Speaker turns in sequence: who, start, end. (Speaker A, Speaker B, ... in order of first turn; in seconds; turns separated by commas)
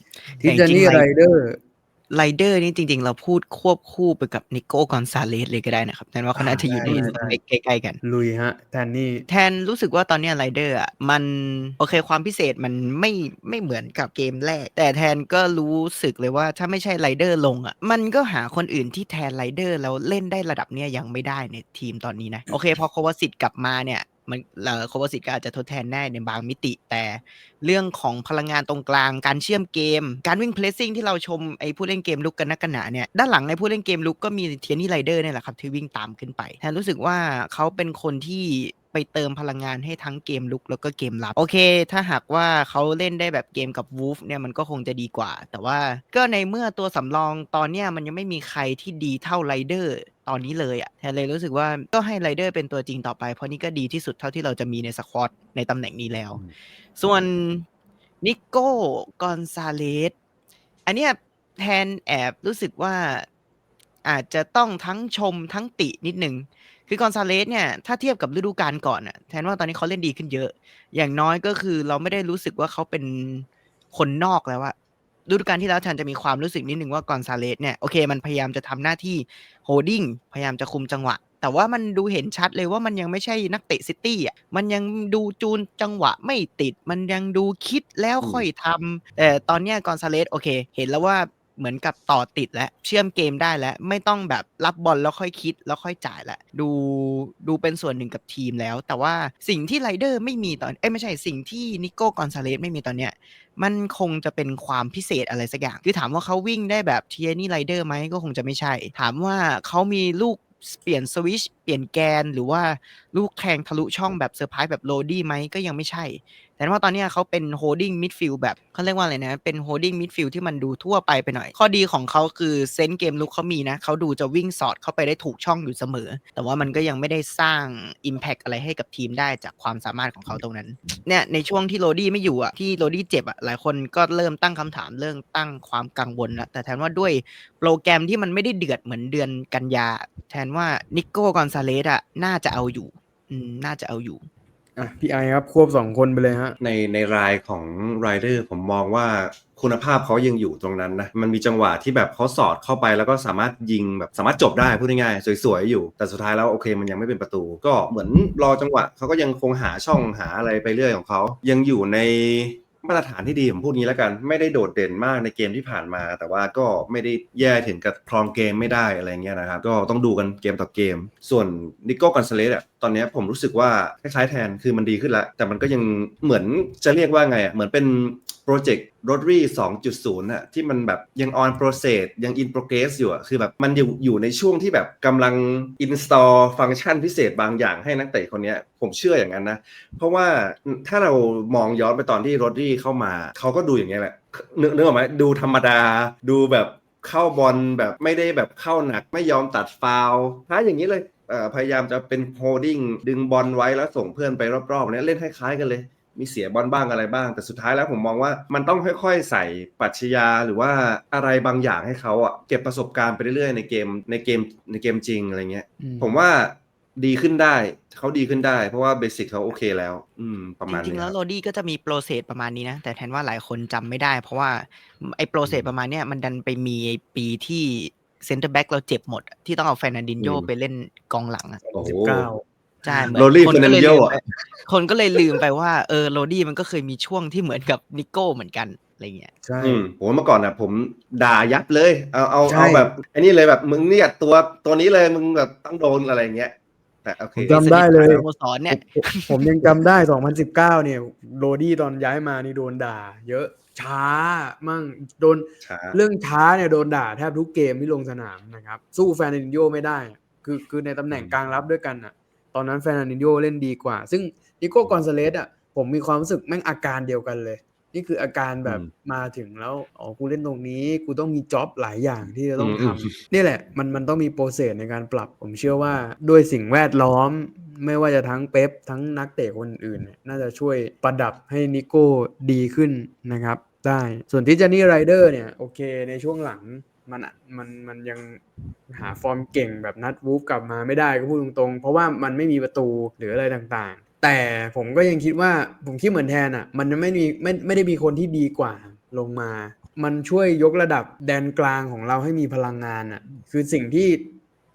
Speaker A: 0.4-1.6, Speaker B: 0.4-1.1, Speaker B: 2.1-8.0, Speaker A: 6.4-7.2, Speaker C: 6.6-7.3, Speaker A: 8.0-9.3, Speaker B: 9.3-56.4, Speaker B: 57.0-57.6, Speaker B: 58.2-60.2, Speaker B: 60.9-63.3, Speaker B: 64.0-74.7, Speaker B: 75.3-144.3, Speaker A: 144.8-146.6, Speaker C: 146.6-221.1, Speaker A: 215.8-216.1, Speaker B: 220.7-231.6, Speaker C: 225.4-225.7, Speaker C: 230.2-230.5, Speaker A: 231.7-233.1, Speaker C: 231.7-232.3, Speaker B: 232.8-239.3, Speaker C: 233.1-234.2, Speaker A: 239.4-239.8, Speaker C: 239.6-247.6, Speaker A: 242.5-242.9, Speaker A: 247.5-304.3, Speaker B: 247.5-249.4, Speaker C: 255.6-256.0, Speaker C: 261.1-261.4, Speaker C: 272.6-273.2